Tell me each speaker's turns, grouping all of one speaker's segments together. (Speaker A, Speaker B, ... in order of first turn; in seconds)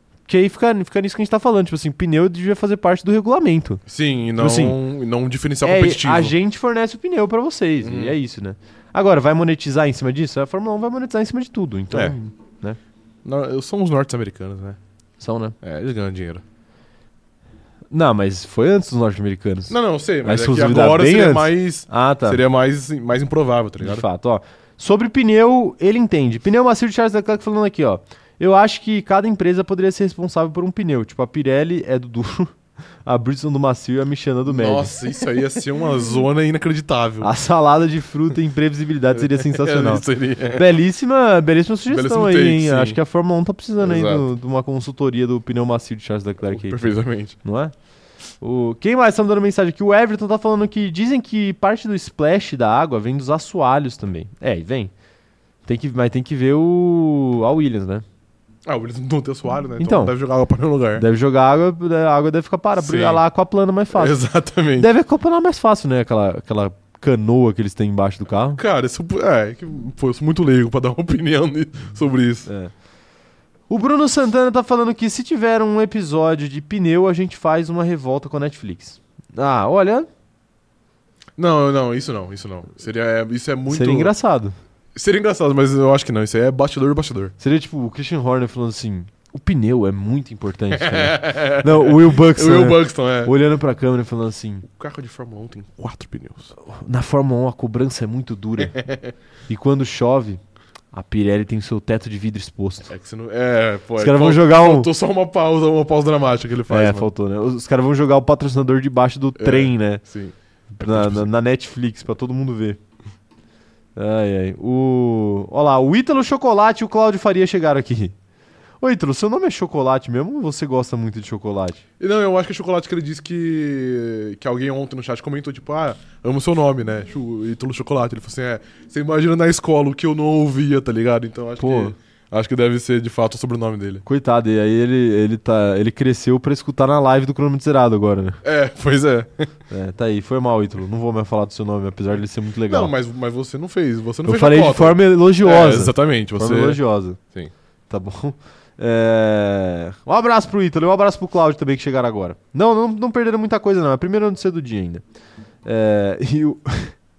Speaker A: 0.3-3.8, 4.4-4.8, 5.6-12.8, 15.2-15.6, 17.9-22.4, 23.8-32.5, 33.0-35.0, 37.2-47.7, 48.4-54.9, 55.6-58.0, 59.8-60.1, 61.0-64.2, 64.8-68.6, 72.5-72.7, 73.7-80.1, 83.7-84.5, 87.4-94.7, 96.6-98.8, 99.5-100.4, 100.9-102.9, 104.0-104.9, 106.7-110.0, 110.8-112.8, 114.0-118.2, 118.8-121.8, 131.6-131.9, 134.1-138.4, 139.7-142.9, 144.2-147.2, 147.9-155.0, 155.7-157.0
Speaker B: 3.9-6.3, 7.8-8.2, 11.9-12.2, 13.2-14.8, 15.6-16.4, 19.7-24.1, 34.5-37.3, 39.1-40.7, 41.9-43.0, 43.8-44.3, 46.5-47.4, 58.7-61.0, 62.8-63.2, 63.9-64.9, 68.6-72.5, 81.4-84.1, 85.0-87.3, 90.7-93.3, 94.7-96.5, 98.8-99.1, 102.9-107.1, 109.4-111.3, 122.0-134.0, 138.4-139.5, 142.7-147.5